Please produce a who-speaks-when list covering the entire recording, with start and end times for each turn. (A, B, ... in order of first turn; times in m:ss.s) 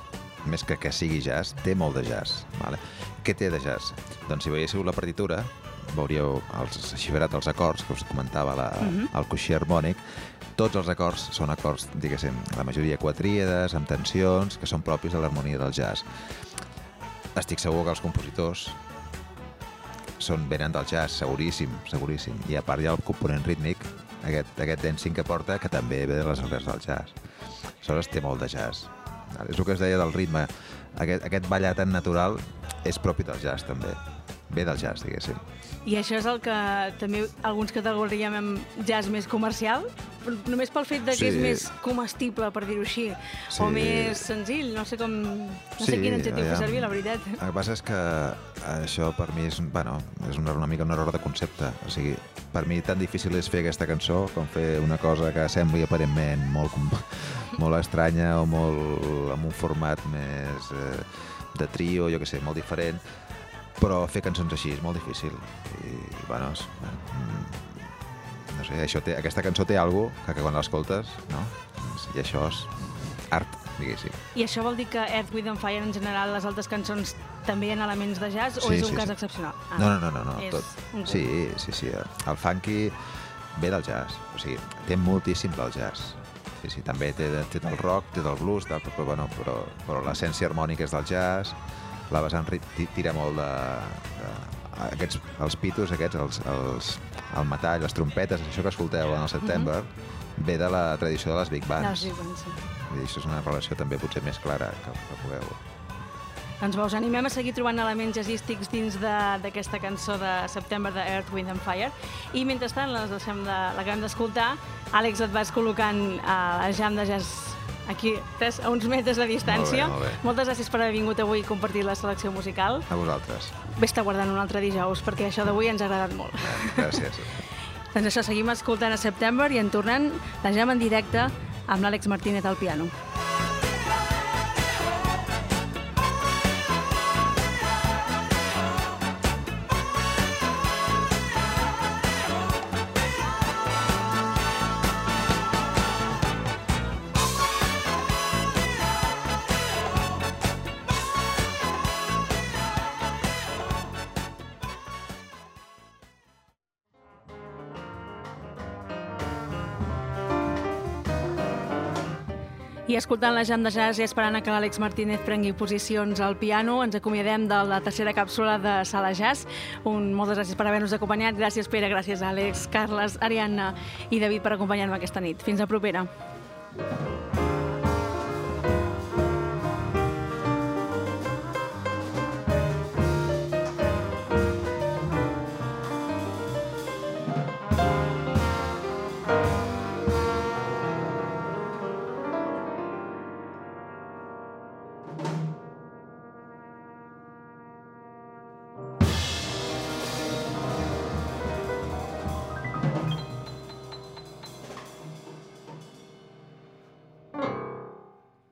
0:00.4-0:10.0 A
0:08.8-0:09.1 B
0:10.6-0:16.0 A
0:17.3-0:18.8 A
0:20.2-0:27.2 A
0:27.8-0:35.4 A
0:35.8-0:47.4 B
0:41.1-0:41.7 A
0:43.5-0:44.3 A
0:45.8-1:03.1 A
1:03.8-1:14.2 A
1:14.3-1:21.2 B
1:18.6-1:19.1 A
1:19.7-1:42.1 A
1:41.8-1:42.6 B
1:42.7-1:45.6 A
1:46.6-2:02.9 B
1:59.4-2:00.2 A
2:02.9-2:03.6 A
2:03.6-2:07.0 B
2:06.4-2:07.4 A
2:07.9-2:12.9 B
2:42.9-2:56.1 B